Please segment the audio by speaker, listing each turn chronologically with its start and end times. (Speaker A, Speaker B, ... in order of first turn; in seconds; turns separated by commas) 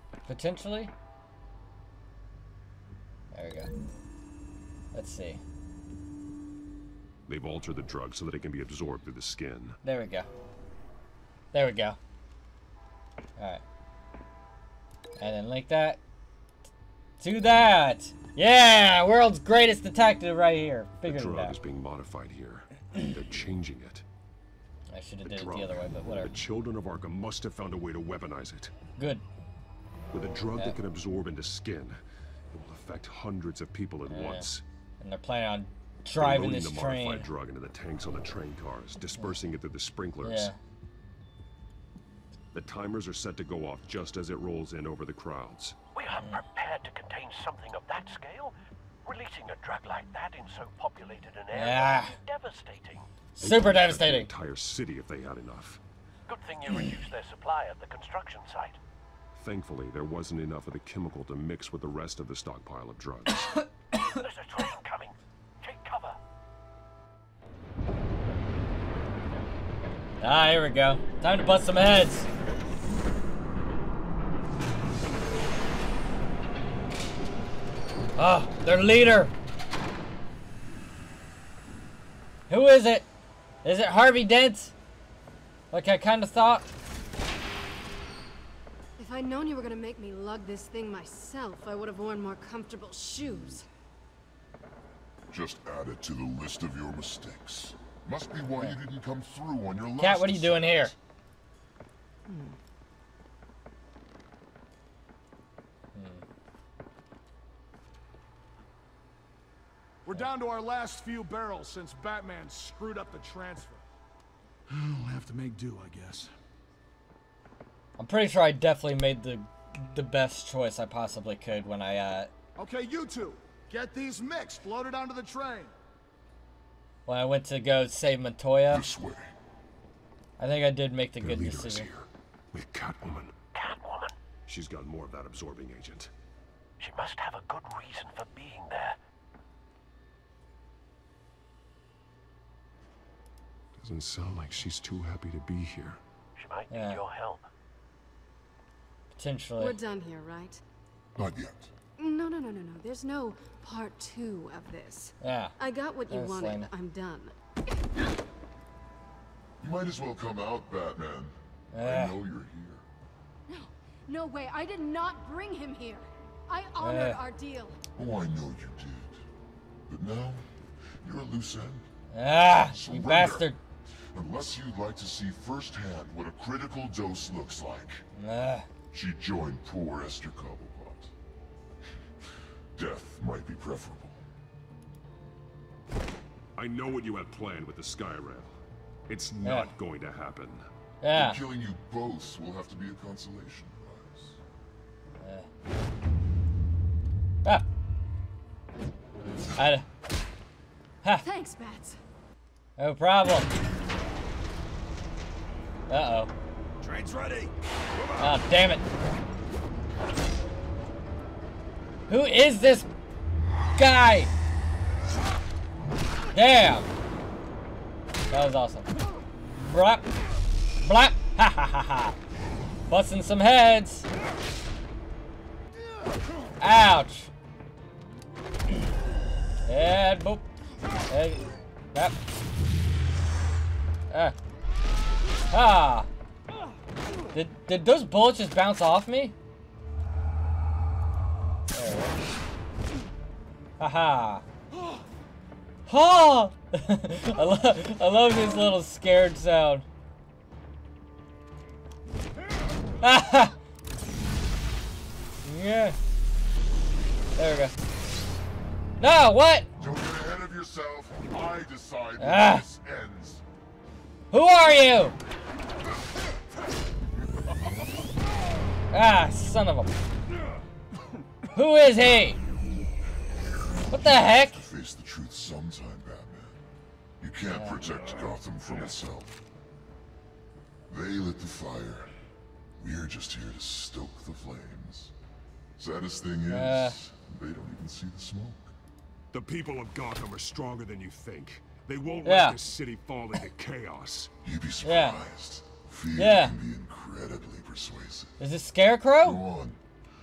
Speaker A: 0.2-0.9, Speaker A: 3.3-3.7, Speaker A: 4.9-5.4, Speaker B: 7.3-9.8, Speaker A: 9.8-10.3, Speaker A: 11.5-12.0, Speaker A: 13.4-13.6, Speaker A: 15.2-16.0, Speaker A: 17.2-21.6, Speaker B: 21.0-24.0, Speaker A: 24.9-26.3, Speaker B: 25.2-28.7, Speaker A: 29.0-29.2, Speaker B: 30.1-32.0, Speaker B: 32.5-34.6, Speaker A: 34.1-34.5, Speaker A: 35.0-37.3, Speaker B: 36.1-40.5, Speaker A: 40.2-40.6, Speaker B: 42.5-45.8, Speaker C: 45.9-53.1, Speaker A: 51.5-52.2, Speaker B: 53.4-55.8, Speaker A: 53.4-54.3, Speaker C: 56.3-58.8, Speaker B: 59.3-63.6, Speaker C: 64.0-66.2, Speaker A: 70.2-72.3, Speaker A: 78.2-79.3, Speaker A: 82.5-83.1, Speaker A: 83.6-84.7, Speaker A: 85.7-86.7, Speaker D: 89.0-93.7, Speaker E: 95.3-100.9, Speaker A: 100.0-100.9, Speaker D: 102.3-102.6, Speaker A: 105.9-106.2, Speaker F: 110.0-113.8, Speaker F: 114.7-116.3, Speaker A: 118.0-122.3, Speaker F: 122.6-125.7, Speaker A: 127.0-128.8, Speaker E: 128.7-129.3, Speaker A: 130.4-131.9, Speaker B: 131.2-133.3, Speaker C: 133.5-134.1, Speaker B: 134.4-136.1, Speaker C: 136.8-139.0, Speaker B: 143.8-146.0, Speaker C: 146.3-147.4, Speaker A: 146.7-147.0, Speaker A: 149.1-149.8, Speaker D: 149.6-150.6, Speaker E: 151.2-151.7, Speaker D: 152.0-157.3, Speaker A: 155.2-155.6, Speaker A: 156.1-156.7, Speaker E: 159.6-162.8, Speaker A: 161.7-162.2, Speaker D: 163.5-167.8, Speaker A: 166.8-167.2, Speaker E: 167.9-169.2, Speaker E: 169.9-170.4, Speaker E: 171.0-171.9, Speaker A: 172.1-173.6, Speaker E: 172.6-173.5, Speaker E: 174.1-178.0, Speaker A: 178.2-178.7, Speaker E: 178.9-181.1, Speaker E: 182.7-184.2, Speaker B: 186.6-188.5, Speaker B: 189.1-190.6, Speaker A: 189.4-189.7, Speaker A: 191.0-191.4, Speaker E: 191.1-194.4, Speaker A: 195.2-195.5, Speaker A: 199.6-199.8, Speaker D: 201.2-202.0, Speaker A: 202.8-203.5, Speaker A: 205.9-206.3, Speaker F: 206.8-207.5, Speaker A: 208.2-208.8, Speaker A: 212.1-212.9, Speaker A: 213.7-214.3, Speaker A: 216.3-216.9, Speaker A: 218.3-218.9, Speaker A: 219.5-220.1, Speaker A: 220.8-222.2, Speaker A: 222.9-224.1, Speaker A: 226.6-227.3, Speaker A: 229.6-230.5, Speaker A: 231.1-232.2, Speaker A: 234.1-234.3, Speaker A: 235.5-236.1, Speaker A: 237.3-239.3, Speaker A: 241.7-242.2, Speaker A: 243.8-244.4, Speaker A: 245.9-249.8, Speaker A: 253.0-253.6, Speaker A: 255.4-256.0, Speaker A: 257.3-257.7, Speaker A: 259.0-259.7, Speaker E: 259.8-263.4, Speaker A: 262.2-262.6, Speaker A: 264.3-265.1, Speaker A: 268.9-269.9, Speaker A: 271.5-272.4, Speaker A: 273.9-274.6, Speaker E: 274.1-276.6, Speaker E: 277.2-279.4, Speaker A: 277.5-277.8, Speaker E: 280.9-282.1, Speaker E: 282.8-285.1, Speaker E: 285.8-288.7, Speaker A: 286.5-287.0, Speaker B: 289.3-294.3, Speaker A: 292.2-292.6, Speaker E: 294.4-298.4, Speaker A: 294.8-295.2, Speaker A: 296.1-296.6, Speaker A: 298.4-299.4, Speaker E: 299.2-299.8